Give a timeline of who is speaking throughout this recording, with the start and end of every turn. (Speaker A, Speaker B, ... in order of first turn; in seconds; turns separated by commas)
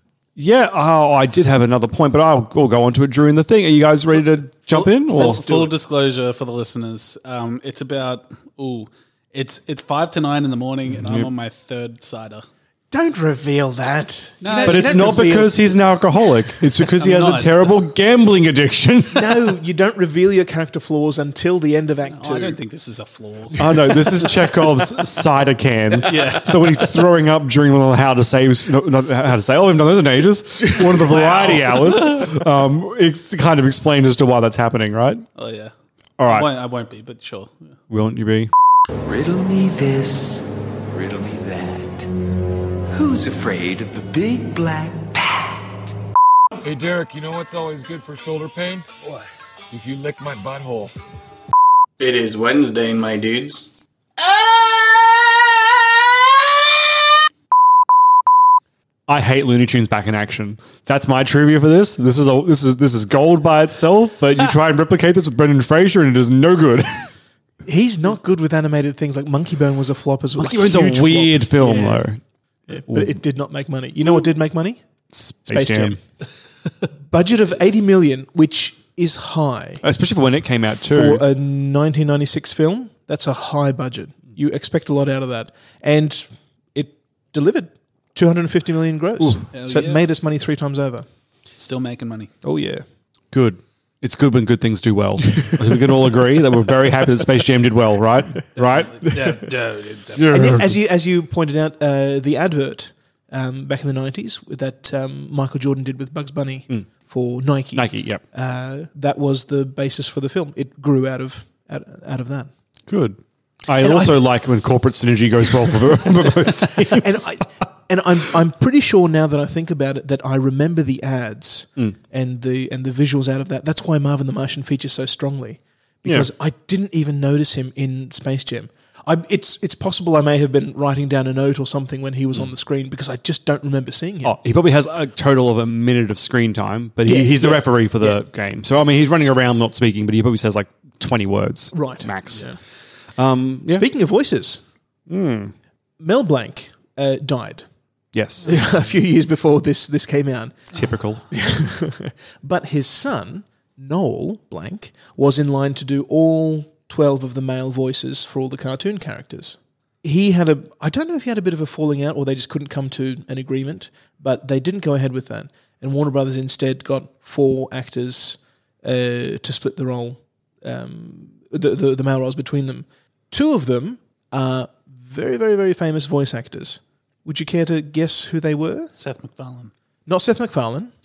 Speaker A: 0.3-5.4, Speaker B: 4.7-12.4, Speaker C: 4.7-5.7, Speaker A: 10.9-11.3, Speaker C: 12.9-15.8, Speaker B: 14.4-15.5, Speaker A: 14.6-19.5, Speaker B: 16.8-17.7, Speaker C: 19.1-22.6, Speaker B: 22.1-24.4, Speaker C: 23.6-24.3, Speaker A: 23.6-35.2, Speaker B: 26.0-27.0, Speaker C: 30.8-31.5, Speaker B: 30.9-32.2, Speaker B: 35.4-35.7, Speaker A: 36.2-36.5, Speaker B: 36.2-37.7, Speaker A: 37.9-38.5, Speaker D: 39.0-42.1, Speaker D: 42.9-45.7, Speaker E: 46.6-50.9, Speaker F: 52.0-53.6, Speaker F: 54.2-56.9, Speaker A: 59.1-67.1, Speaker C: 67.7-72.1, Speaker A: 70.3-72.2, Speaker C: 72.7-74.8, Speaker A: 72.9-73.2, Speaker A: 75.1-76.0, Speaker C: 75.5-76.0, Speaker C: 77.1-79.8, Speaker A: 79.8-81.2, Speaker C: 80.7-91.0, Speaker A: 89.2-89.4, Speaker B: 89.5-90.0, Speaker B: 91.6-92.3, Speaker C: 92.4-92.8, Speaker A: 93.3-99.2, Speaker B: 98.5-100.5, Speaker A: 100.1-100.8, Speaker C: 100.3-112.5, Speaker A: 107.7-108.2, Speaker A: 112.9-117.3, Speaker C: 113.8-114.2, Speaker C: 116.9-134.3, Speaker A: 134.2-142.5, Speaker C: 137.0-138.2, Speaker C: 141.7-142.6, Speaker A: 143.2-143.8, Speaker C: 143.7-144.6, Speaker A: 145.1-145.5, Speaker C: 146.0-147.7, Speaker A: 148.1-148.6, Speaker C: 148.4-150.8, Speaker A: 150.7-151.2, Speaker C: 151.3-178.9, Speaker B: 178.9-179.7, Speaker C: 180.1-180.9